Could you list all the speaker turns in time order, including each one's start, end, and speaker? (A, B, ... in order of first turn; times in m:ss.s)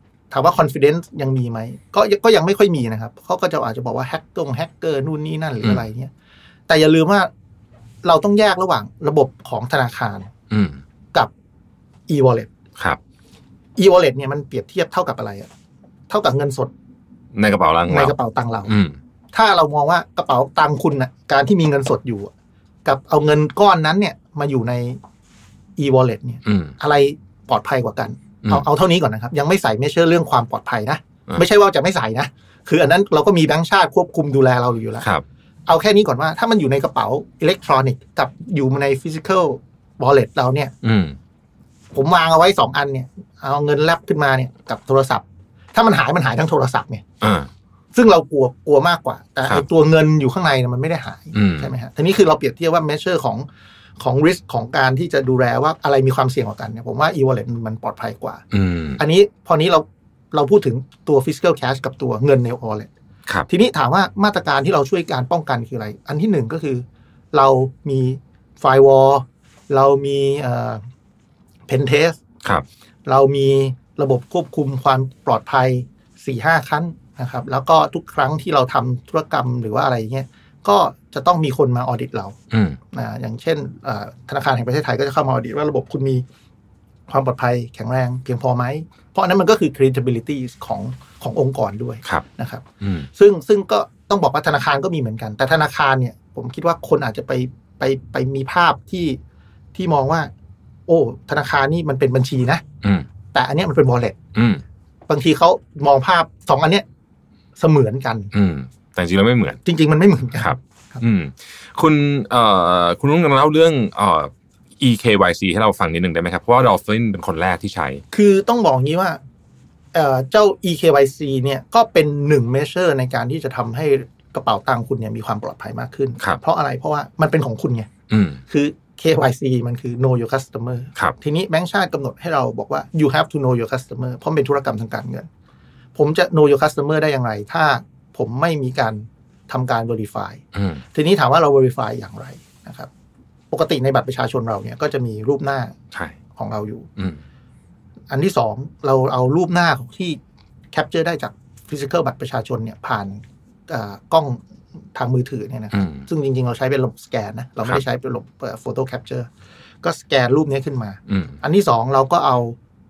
0:00.3-0:06.1 A
0:06.7-0:07.3 A
0:08.0-0:10.3 A
0:10.5-0:10.8 B
0:12.1-0:12.5 A
0:13.8-0:15.5 A
0:16.1-0:16.7 A
0:17.3-0:18.2 B
0:17.9-0:18.8 A
0:18.7-0:19.0 B
0:19.3-0:22.3 A
0:22.8-0:25.0 A
0:25.8-0:35.1 A
0:26.4-0:26.7 B
0:35.7-0:40.7 A
0:40.8-0:41.2 B
0:41.9-0:47.0 A
0:47.2-0:47.5 B
0:48.0-0:53.5 A
0:51.3-0:51.7 B
0:54.0-0:58.4 A
0:58.5-0:59.0 B
0:59.0-1:02.9 A
1:03.5-1:10.8 A
1:11.7-1:12.2 A
1:13.1-1:22.4 A
1:22.5-1:22.8 B
1:22.9-1:26.2 A
1:27.1-1:39.2 A
1:32.8-1:33.1 B
1:39.7-1:40.3 A
1:40.9-1:42.6 A
1:43.3-1:44.2 A
1:44.4-1:44.6 B
1:45.1-1:46.8 A
1:47.6-1:48.3 A
1:48.3-1:49.6 B
1:49.6-1:51.0 A
1:50.4-1:58.0 B
1:58.1-1:59.2 A
1:59.9-2:07.9 A
2:08.1-2:08.4 B
2:08.5-2:15.3 A
2:16.0-2:22.9 A
2:20.5-2:20.8 B
2:23.5-2:25.8 A
2:26.4-2:26.9 A
2:28.1-2:30.2 A
2:30.7-2:34.4 A
2:34.9-2:39.3 A
2:35.7-2:36.0 B
2:39.8-2:42.6 A
2:41.1-2:41.4 B